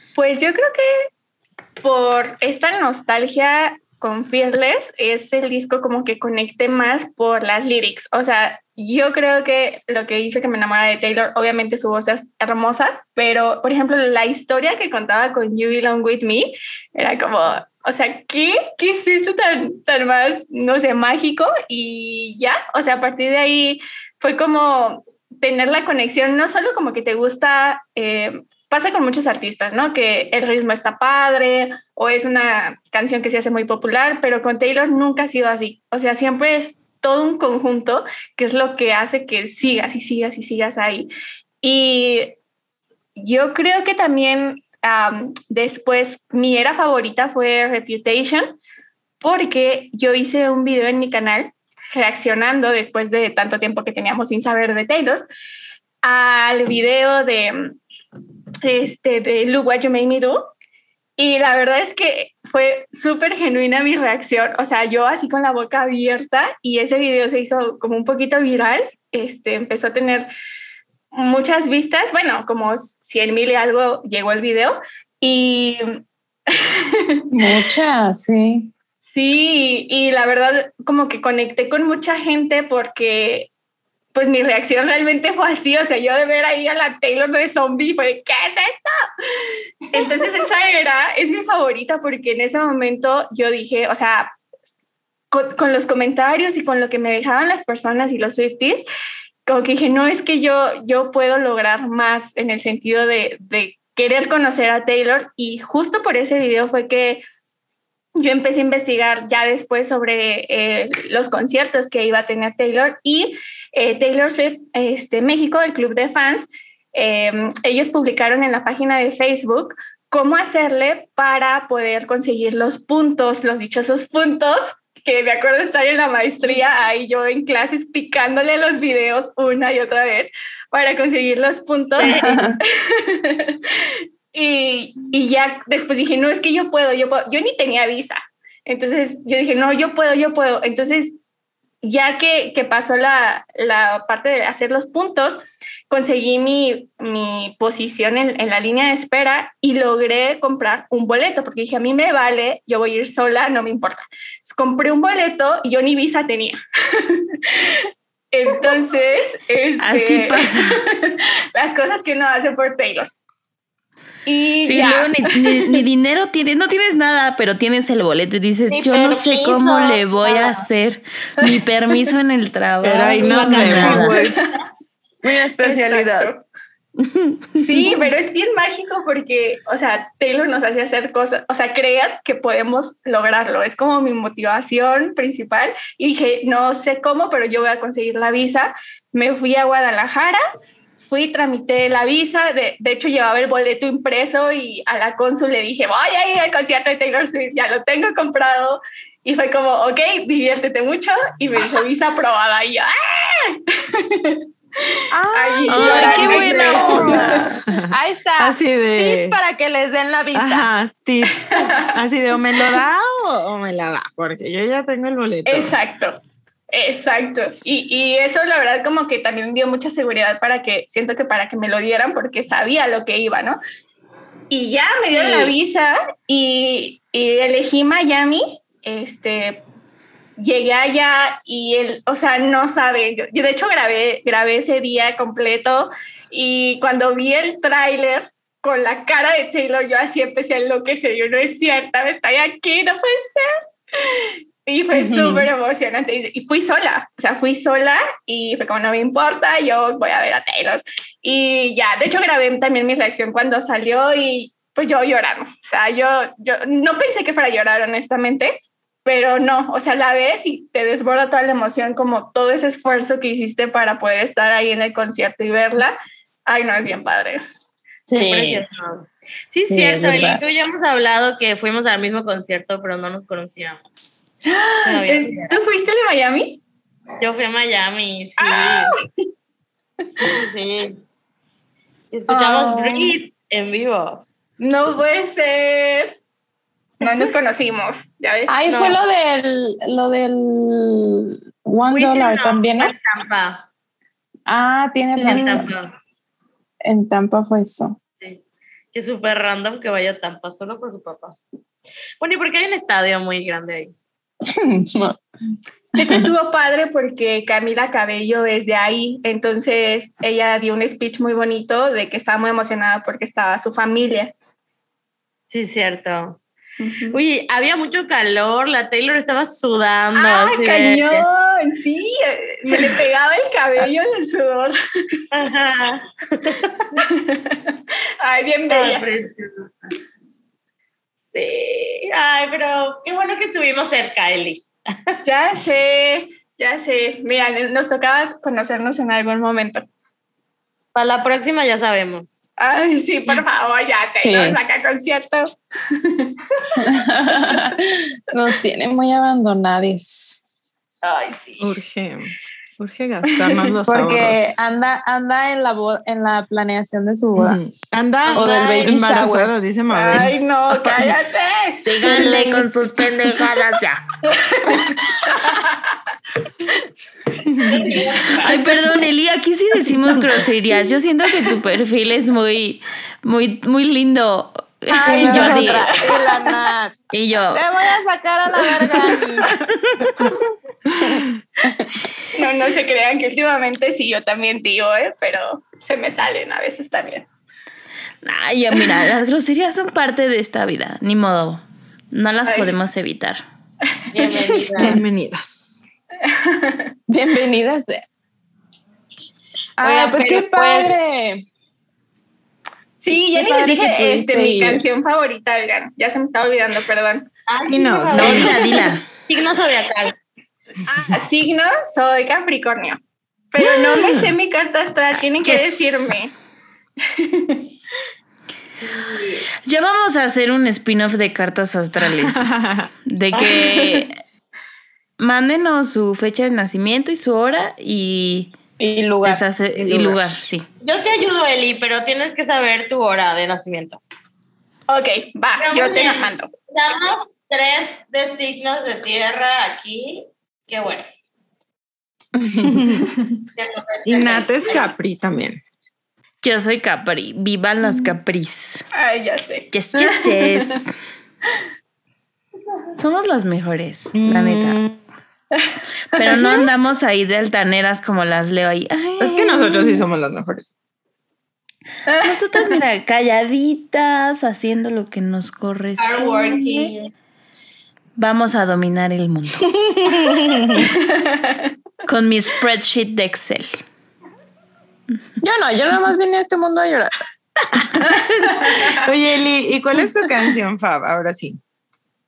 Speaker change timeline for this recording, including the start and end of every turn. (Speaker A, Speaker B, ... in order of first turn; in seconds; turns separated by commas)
Speaker A: 0.2-0.9, Speaker A: 1.8-41.1, Speaker A: 41.6-42.4, Speaker A: 43.2-48.6, Speaker A: 49.2-55.3, Speaker A: 56.0-57.8, Speaker A: 58.6-60.5, Speaker A: 61.2-70.3, Speaker A: 71.1-76.0, Speaker A: 76.5-77.3, Speaker B: 77.3-78.7, Speaker A: 79.1-83.5, Speaker A: 84.1-94.3, Speaker A: 95.3-98.8, Speaker A: 99.5-107.2, Speaker A: 108.2-141.2, Speaker C: 132.0-132.4, Speaker B: 132.0-132.6, Speaker A: 141.8-163.1, Speaker D: 159.8-160.8, Speaker A: 164.3-165.8, Speaker D: 164.6-174.2, Speaker C: 168.7-170.7, Speaker E: 172.8-174.4, Speaker A: 173.2-174.4, Speaker B: 173.4-174.1, Speaker C: 173.6-174.1, Speaker B: 175.2-176.3, Speaker A: 175.6-176.4, Speaker A: 177.6-190.4, Speaker A: 191.1-207.5, Speaker B: 205.1-210.7, Speaker D: 205.7-207.3, Speaker E: 207.6-209.4, Speaker E: 210.3-215.8, Speaker A: 211.4-211.9, Speaker A: 215.5-216.2, Speaker A: 216.7-223.6, Speaker A: 224.5-229.6, Speaker B: 225.1-225.5, Speaker A: 230.4-267.4, Speaker B: 244.9-245.5, Speaker B: 268.1-268.6, Speaker C: 268.1-273.9, Speaker B: 269.7-270.4, Speaker A: 274.5-276.6, Speaker C: 274.9-275.6, Speaker C: 277.2-278.9, Speaker A: 278.4-278.9, Speaker C: 280.2-281.0, Speaker C: 282.1-284.2, Speaker A: 282.3-283.1, Speaker A: 284.6-286.2, Speaker A: 287.0-289.0, Speaker B: 288.5-292.9, Speaker C: 288.7-289.0, Speaker C: 291.9-293.7, Speaker B: 294.5-295.7, Speaker C: 295.3-295.9, Speaker B: 296.8-298.0, Speaker C: 298.9-301.4, Speaker C: 302.2-303.9, Speaker B: 304.5-305.2, Speaker A: 305.9-314.3, Speaker B: 306.0-306.2, Speaker C: 315.5-316.4, Speaker A: 316.8-317.2, Speaker C: 317.1-321.2, Speaker A: 320.1-325.2, Speaker C: 322.7-323.0, Speaker C: 325.3-326.9, Speaker A: 327.0-329.0, Speaker C: 328.7-329.7, Speaker C: 331.3-335.2, Speaker A: 335.2-339.9, Speaker C: 340.9-342.5, Speaker A: 342.6-346.4, Speaker B: 344.2-344.6, Speaker B: 346.8-350.4, Speaker C: 351.0-351.8, Speaker E: 351.6-354.6, Speaker B: 353.9-357.6, Speaker E: 357.4-360.4, Speaker C: 358.2-358.6, Speaker B: 358.4-359.5, Speaker A: 359.9-362.3, Speaker D: 360.7-361.2, Speaker D: 361.9-364.1, Speaker B: 362.0-362.7, Speaker A: 364.3-365.9, Speaker E: 367.5-367.9, Speaker A: 367.7-368.3, Speaker C: 367.7-368.6, Speaker D: 368.4-375.9, Speaker B: 374.9-379.6, Speaker A: 375.3-376.6, Speaker D: 377.1-377.7, Speaker D: 379.9-380.1, Speaker B: 381.0-382.0, Speaker A: 382.3-387.3, Speaker D: 388.2-393.4, Speaker A: 392.4-392.8, Speaker C: 394.1-395.0, Speaker B: 394.3-395.0, Speaker E: 394.8-395.7, Speaker A: 396.3-396.9, Speaker B: 397.1-398.0, Speaker B: 399.8-401.4, Speaker C: 399.8-401.0, Speaker A: 403.0-407.3, Speaker B: 403.1-404.8, Speaker C: 407.5-410.2, Speaker E: 407.7-408.5, Speaker D: 408.1-409.1, Speaker A: 408.3-408.9, Speaker A: 410.9-413.0, Speaker A: 413.5-416.3, Speaker E: 413.6-414.3, Speaker D: 415.4-416.1, Speaker A: 417.1-417.7, Speaker C: 418.8-419.5, Speaker D: 419.6-422.5, Speaker E: 422.2-422.9, Speaker D: 423.1-424.1, Speaker C: 423.3-423.8, Speaker D: 425.2-428.5, Speaker B: 428.8-429.4, Speaker D: 429.2-430.7, Speaker E: 429.8-430.3, Speaker C: 430.8-434.0, Speaker A: 434.9-436.5, Speaker C: 435.6-441.0, Speaker E: 442.7-443.0, Speaker C: 443.6-444.9, Speaker E: 444.1-445.6, Speaker D: 446.4-448.9, Speaker A: 448.9-450.8, Speaker D: 449.7-451.0, Speaker D: 453.0-454.8, Speaker E: 454.1-455.0, Speaker A: 455.6-456.7, Speaker D: 456.1-460.1, Speaker E: 459.2-460.8, Speaker A: 462.1-462.8, Speaker D: 462.2-466.9, Speaker C: 466.0-467.1, Speaker D: 468.2-469.8, Speaker A: 470.7-471.7, Speaker D: 472.1-473.8, Speaker B: 475.4-477.1, Speaker A: 478.5-479.0, Speaker E: 478.8-481.6